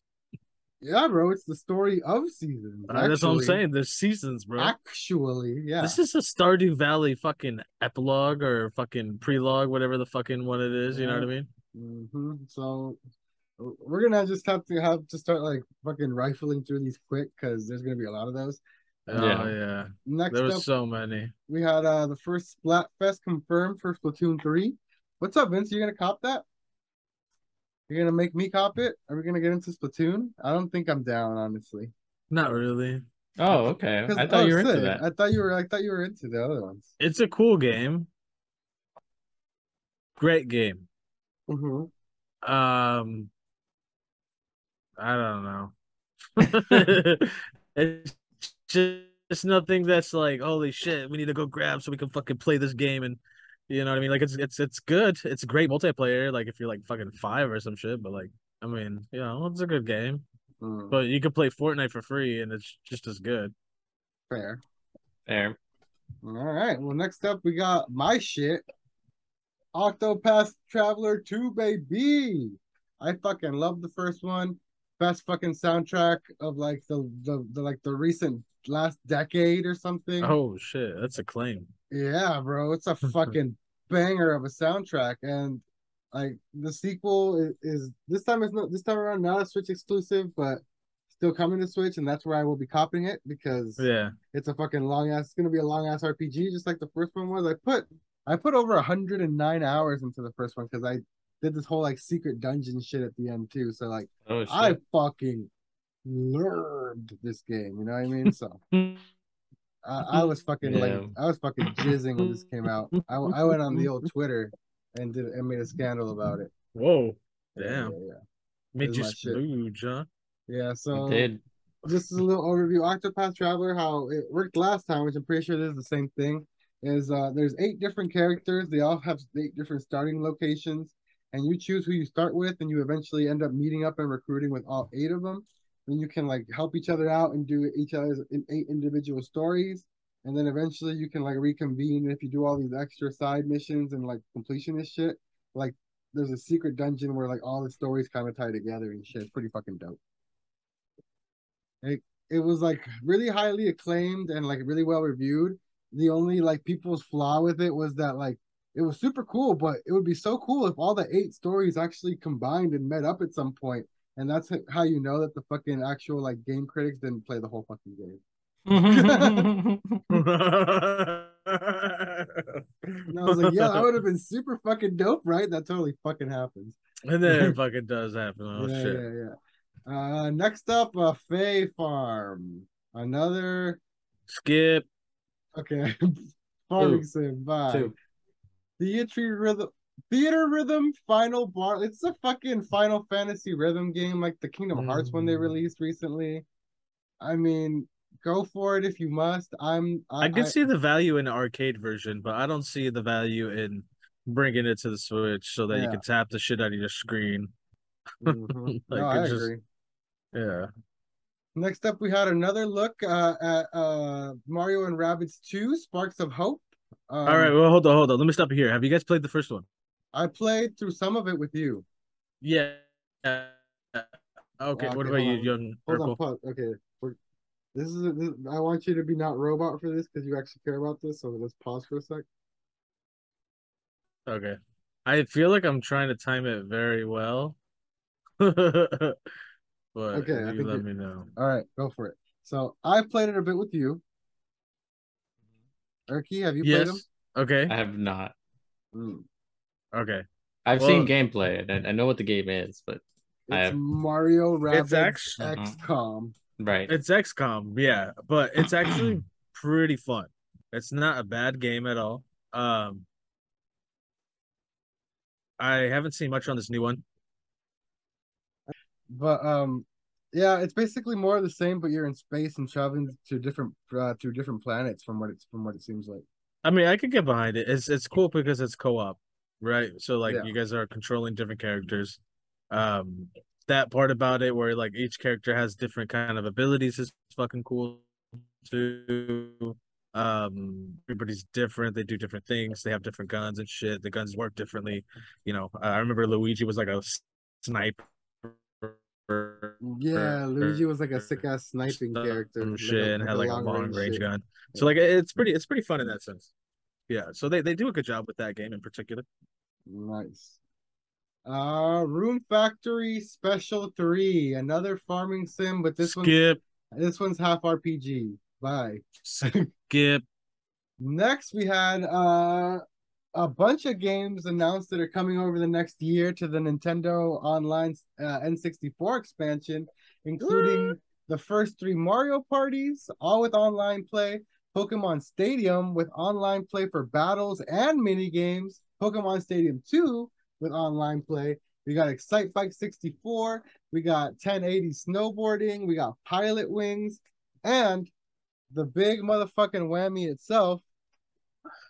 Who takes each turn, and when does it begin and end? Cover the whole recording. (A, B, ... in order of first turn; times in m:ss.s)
0:00.8-0:03.6 A
0:02.9-0:04.8 B
0:04.6-0:06.0 A
0:05.8-0:11.5 B
0:10.9-0:13.0 A
0:13.6-0:18.6 A
0:19.1-0:21.3 B
0:19.2-0:19.6 C
0:20.1-0:20.7 A
0:21.5-0:26.4 A
0:27.9-0:31.9 A
0:32.3-0:33.0 B
0:33.4-0:35.0 C
0:33.5-0:36.9 A
0:37.0-0:38.1 B
0:40.2-0:40.9 B
0:41.5-0:41.9 A
0:42.4-0:43.3 B
0:45.0-0:45.8 B
0:46.4-1:00.2 B
1:00.6-1:01.0 A
1:00.9-1:03.5 B
1:04.3-1:04.6 A
1:05.3-1:05.6 C
1:06.2-1:08.6 A
1:09.7-1:20.4 A
1:20.2-1:21.7 B
1:21.9-1:45.5 A
1:33.8-1:34.2 B
1:44.3-1:44.8 C
1:46.0-1:48.6 A
1:48.2-1:49.0 B
1:49.8-1:56.5 A
1:50.6-1:51.2 C
1:51.7-1:52.4 B
1:52.9-1:54.1 B
1:56.7-1:58.0 B
1:57.6-1:58.2 A
1:58.8-2:00.1 B
1:58.8-1:59.4 A
2:00.5-2:01.3 A
2:00.9-2:01.4 C
2:01.8-2:30.0 A
2:31.8-2:48.2 A
2:48.7-2:50.2 C
2:48.9-2:49.5 A
2:50.1-2:53.9 B
2:53.1-2:57.6 A
2:57.0-2:59.0 B
2:58.6-2:59.3 A
2:59.9-3:03.8 A
3:04.3-3:04.9 B
3:05.5-3:07.9 A
3:06.8-3:07.0 C
3:07.7-3:07.9 C
3:08.8-3:16.4 A
3:14.8-3:15.4 B
3:17.2-3:20.6 A
3:20.2-3:27.5 B
3:25.7-3:26.0 A
3:28.2-3:29.6 A
3:28.3-3:29.5 B
3:30.3-3:30.7 B
3:31.6-3:37.5 A
3:37.2-3:39.7 B
3:40.1-3:41.8 A
3:42.4-3:46.2 B
3:44.8-3:47.2 A
3:47.7-3:52.3 A
3:54.3-3:57.6 B
3:58.4-3:59.2 B
4:00.0-4:01.3 B
4:00.1-4:00.8 A
4:01.4-4:04.0 A
4:06.1-4:07.0 A
4:06.6-4:07.7 B
4:07.7-4:08.3 C
4:08.9-4:09.3 A
4:09.9-4:10.2 B
4:10.6-4:13.8 C
4:10.8-4:11.1 B
4:13.5-4:16.4 A
4:14.7-4:15.5 B
4:15.4-4:15.8 C
4:16.6-4:16.9 C
4:16.9-4:23.1 B
4:18.6-4:19.2 C
4:25.6-4:27.0 B
4:29.1-4:36.2 A
4:36.6-4:42.2 B
4:40.3-4:40.5 A
4:42.7-4:48.1 B
4:48.6-5:06.5 B
4:59.8-5:04.9 A
5:07.1-5:09.3 B
5:09.9-5:10.6 A
5:11.4-5:16.4 A
5:16.0-5:16.6 B
5:16.9-5:19.7 A
5:19.2-5:20.2 B
5:21.0-5:22.8 A
5:23.4-5:48.1 A
5:30.4-5:31.0 B
5:48.7-5:50.8 A